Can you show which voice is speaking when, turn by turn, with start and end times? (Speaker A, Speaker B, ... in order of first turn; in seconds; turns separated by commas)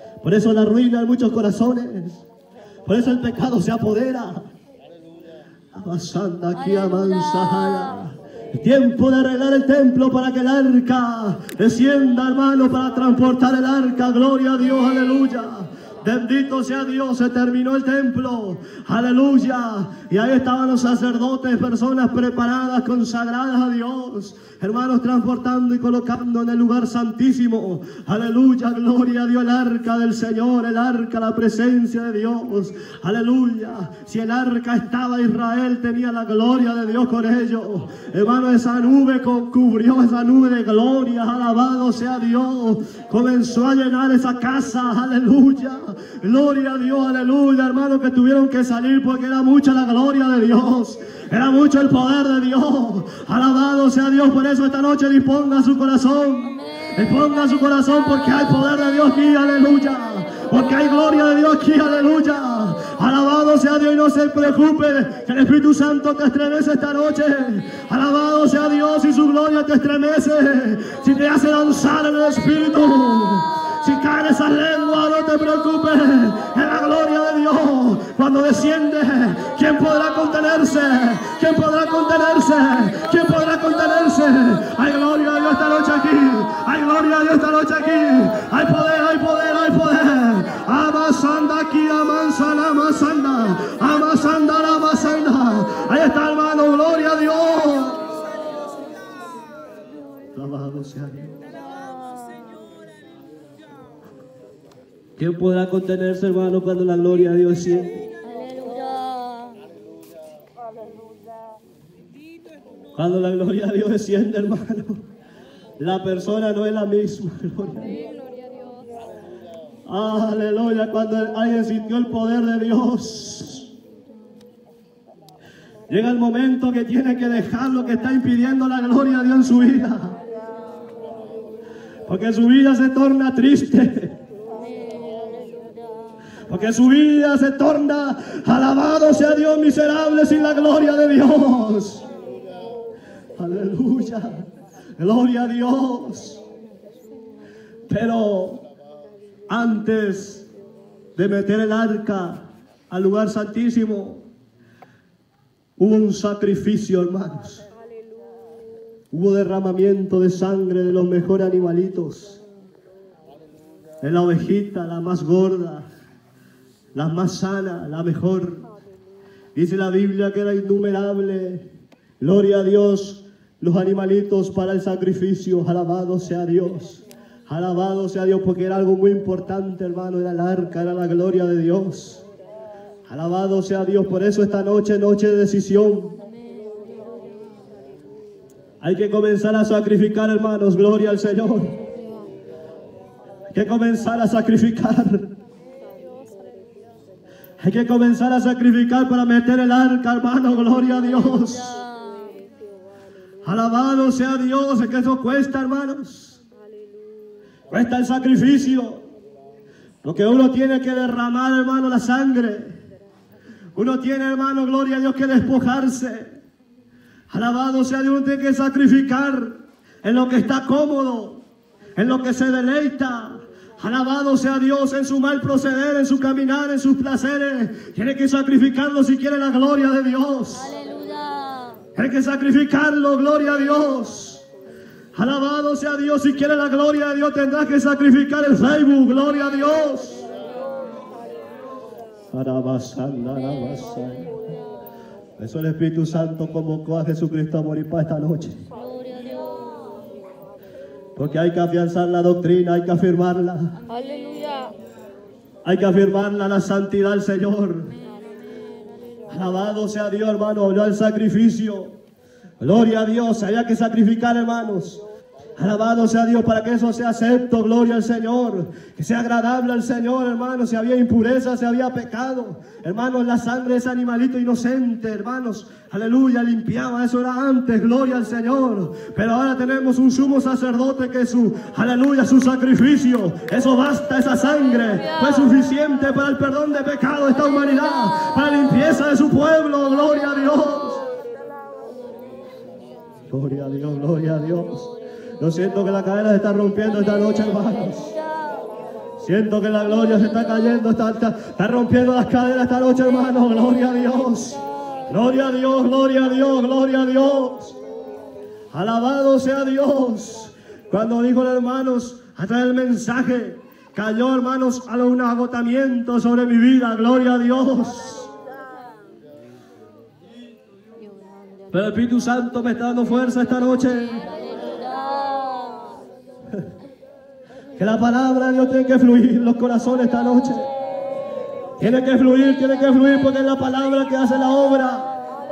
Speaker A: 0.2-2.2, Speaker A: 2.9-4.5, Speaker A: 5.7-98.2, Speaker B: 6.8-7.9, Speaker A: 100.3-101.5, Speaker B: 101.7-102.6, Speaker A: 105.2-108.1, Speaker B: 108.2-109.6, Speaker A: 113.0-115.0, Speaker A: 115.8-118.0, Speaker B: 118.1-118.8, Speaker A: 119.9-123.7, Speaker A: 125.9-130.2, Speaker A: 132.1-134.2, Speaker B: 134.6-136.2, Speaker A: 136.5-142.1, Speaker A: 143.4-146.4, Speaker A: 147.9-148.6, Speaker A: 149.5-150.5, Speaker A: 151.2-154.3, Speaker A: 155.8-157.7, Speaker A: 159.1-162.4, Speaker A: 164.0-165.9, Speaker A: 166.9-168.7, Speaker A: 169.6-171.7, Speaker A: 172.2-182.2, Speaker A: 183.1-186.2, Speaker A: 188.8-191.8, Speaker A: 193.5-195.3, Speaker A: 197.6-201.8, Speaker B: 201.4-202.4, Speaker A: 203.4-206.4, Speaker A: 207.7-209.1, Speaker A: 210.0-212.8, Speaker A: 213.8-216.4, Speaker A: 217.3-221.4, Speaker A: 222.0-230.8, Speaker B: 230.7-231.8, Speaker A: 231.9-234.4, Speaker A: 235.2-240.3, Speaker A: 242.3-244.5, Speaker A: 245.4-248.7, Speaker B: 248.8-249.9, Speaker A: 251.2-253.8, Speaker B: 253.9-254.7, Speaker A: 255.7-258.0, Speaker B: 258.1-258.7, Speaker A: 259.3-262.0, Speaker A: 262.6-265.0, Speaker A: 265.6-291.1, Speaker A: 293.3-298.1, Speaker B: 298.4-298.6, Speaker A: 299.2-307.8, Speaker A: 308.7-318.3, Speaker B: 321.1-321.6, Speaker A: 321.7-324.4, Speaker B: 324.5-326.1, Speaker A: 327.8-330.7, Speaker A: 331.8-335.1